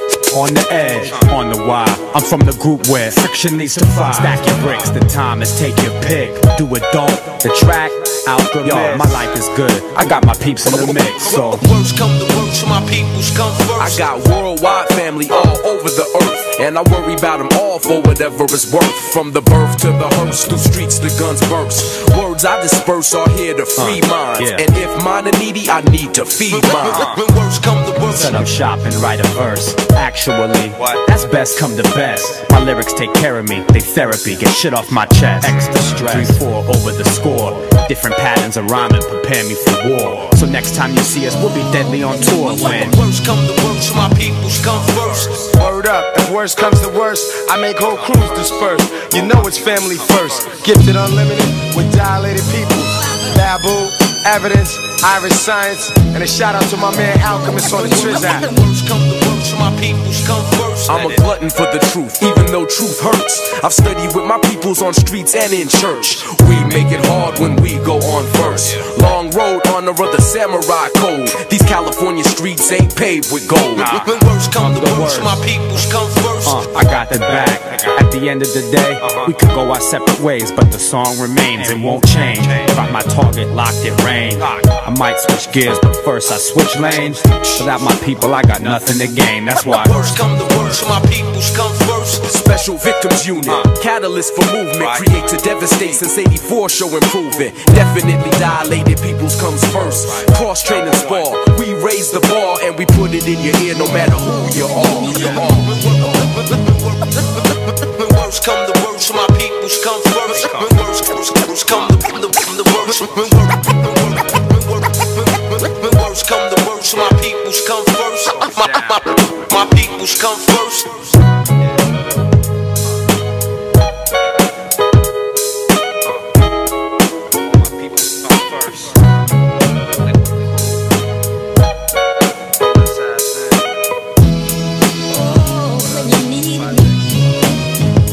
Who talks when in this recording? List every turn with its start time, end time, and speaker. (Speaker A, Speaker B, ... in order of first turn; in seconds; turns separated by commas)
Speaker A: 0.3-11.7, Speaker B: 8.6-9.2, Speaker C: 10.7-14.0, Speaker B: 13.8-27.1, Speaker A: 23.8-24.6, Speaker C: 26.8-28.4, Speaker A: 28.1-43.0, Speaker C: 42.5-45.5, Speaker D: 45.4-58.5, Speaker C: 57.9-61.2, Speaker B: 60.9-74.0, Speaker C: 73.9-76.6, Speaker A: 73.9-75.4, Speaker A: 76.4-90.2, Speaker C: 89.7-92.2, Speaker B: 92.2-105.8, Speaker C: 105.8-107.1, Speaker C: 107.8-121.1, Speaker D: 132.7-133.6